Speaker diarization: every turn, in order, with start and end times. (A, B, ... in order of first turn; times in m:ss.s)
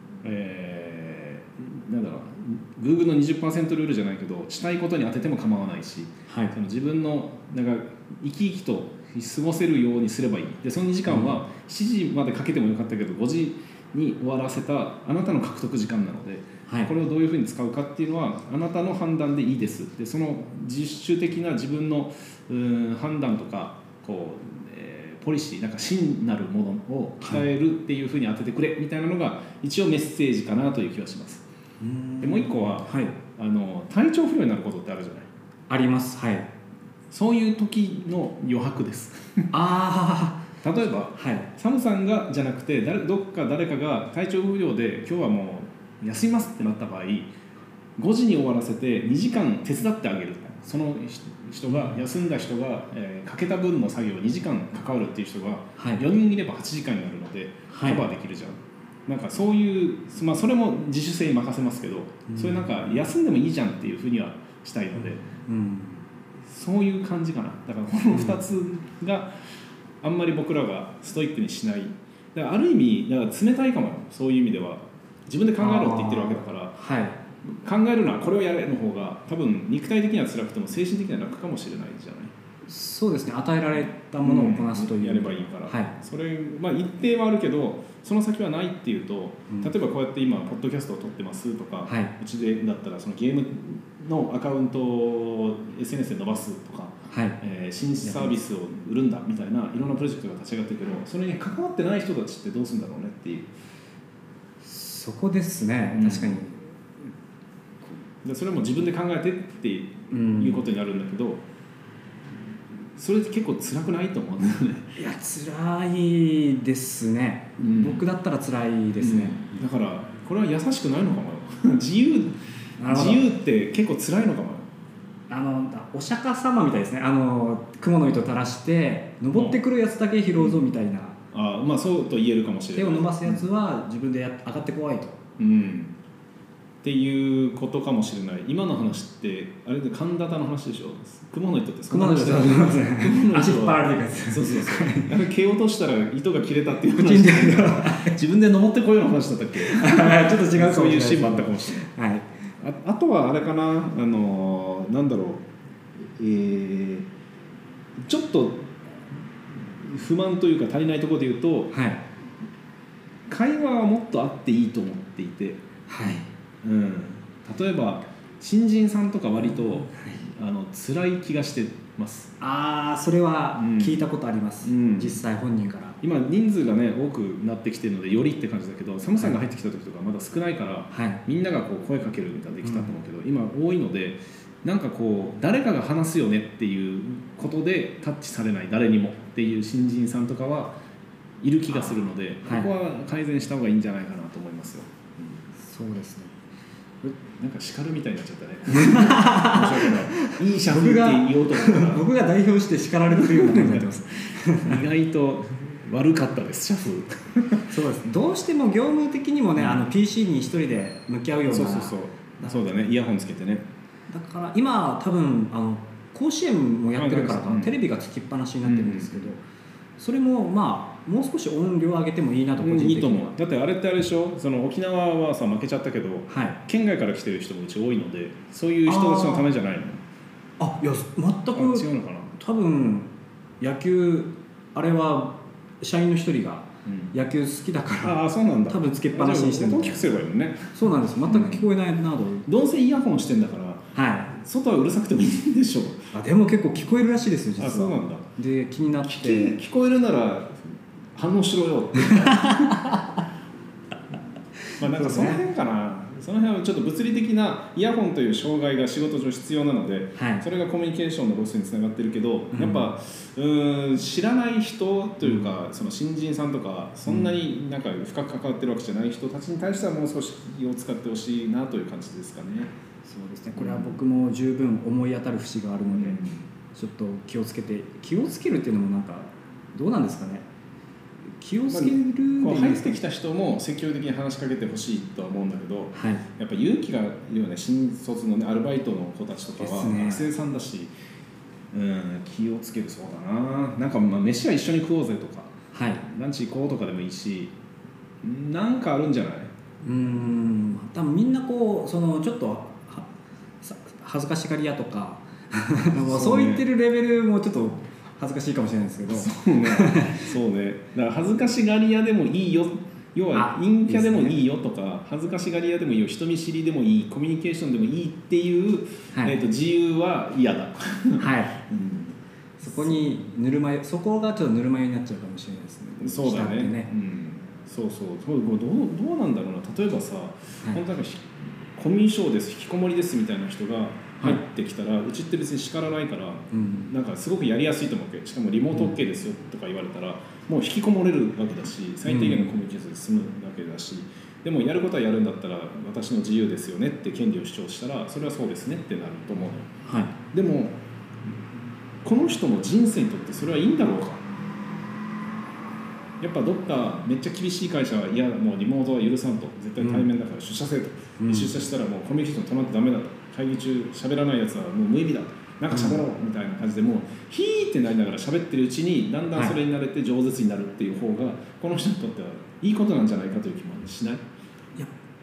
0:00.2-0:31.4 A
0:06.3-0:06.5 B
0:11.1-0:11.4 B
0:16.7-0:16.9 B
0:31.8-0:33.1 B
0:32.2-0:35.3 A
0:35.7-0:36.5 B
0:37.1-0:39.5 A
0:39.5-0:40.4 B
0:40.6-0:47.3 A
0:41.2-0:41.5 B
0:48.0-1:05.2 A
0:51.7-0:52.0 B
0:55.8-0:56.0 B
0:57.7-0:58.0 B
1:02.3-1:02.7 B
1:05.3-1:06.0 B
1:06.4-1:09.3 A
1:08.1-1:08.4 B
1:10.0-1:16.7 A
1:15.6-1:17.2 B
1:17.4-1:22.3 A
1:22.7-1:25.9 B
1:24.2-1:43.5 A
1:31.9-1:32.1 B
1:37.1-1:37.4 B
1:38.0-1:38.4 B
1:44.6-1:46.6 B
1:45.9-1:46.4 A
1:48.2-1:51.4 A
1:50.1-1:50.6 B
1:53.0-1:55.0 A
1:55.0-1:59.6 B
1:57.6-1:58.0 A
1:59.0-2:04.7 A
2:02.8-2:03.3 B
2:05.3-2:11.2 B
2:09.3-2:09.6 A
2:10.4-2:10.6 A
2:11.3-2:13.4 A
2:12.7-2:15.2 B
2:15.4-2:16.0 A
2:16.8-2:31.9 A
2:21.9-2:25.2 B
2:26.9-2:28.2 B
2:29.6-2:32.3 B
2:32.6-2:35.4 A
2:36.0-2:37.1 A
2:38.0-2:38.7 A
2:39.6-2:41.7 A
2:41.7-2:42.0 B
2:43.3-2:45.6 A
2:45.9-2:46.3 B
2:46.6-2:52.3 A
2:49.4-2:50.2 B
2:52.4-2:56.0 B
2:53.6-2:54.1 A
2:54.6-2:55.2 A
2:56.0-3:10.7 A
3:00.9-3:01.2 B
3:02.6-3:02.9 B
3:11.4-3:15.4 A
3:11.7-3:12.7 B
3:15.6-3:16.3 B
3:17.0-3:22.0 A
3:18.7-3:24.8 B
3:23.1-3:27.7 A
3:27.7-3:32.6 B
3:29.6-3:29.9 A
3:31.5-3:33.6 A
3:34.1-3:39.4 B
3:37.0-3:37.8 A
3:38.6-3:39.2 A
3:40.0-3:43.4 B
3:42.6-3:50.0 A
3:46.3-3:46.6 B
3:48.8-3:49.5 B
3:50.6-3:58.2 B
3:51.5-3:52.3 A
3:56.8-3:57.1 A
3:58.0-4:00.8 A
3:58.7-4:00.2 B
4:00.7-4:02.5 B
4:01.3-4:01.6 A
4:02.4-4:06.1 A
4:03.9-4:04.3 B
4:06.1-4:09.6 B
4:07.6-4:08.3 A
4:09.0-4:12.9 A
4:12.0-4:13.2 B
4:14.7-4:15.4 B
4:14.8-4:32.7 A
4:20.2-4:20.4 B
4:22.5-4:22.9 B
4:33.0-4:36.2 B
4:33.6-4:34.0 A
4:35.9-4:36.4 A
4:36.7-4:40.4 B
4:41.4-4:43.0 B
4:41.7-4:50.9 A
4:45.9-4:46.2 B
4:49.6-4:50.3 B
4:51.7-4:57.5 A
4:55.7-4:56.0 B
4:58.2-4:59.5 A
4:59.8-5:03.1 B
5:03.6-5:10.3 B
5:05.9-5:06.6 A
5:09.1-5:22.2 A
5:13.3-5:14.4 B
5:21.2-5:21.6 B
5:22.6-5:26.9 B
5:22.7-5:23.1 A
5:26.0-5:49.7 A
5:36.5-5:36.9 B
5:42.1-5:42.5 B
5:49.8-5:50.1 B
5:50.3-5:50.8 A
5:52.0-5:54.2 A
5:56.2-6:14.2 A
5:59.8-6:00.1 B
6:01.2-6:01.5 B
6:05.7-6:06.0 B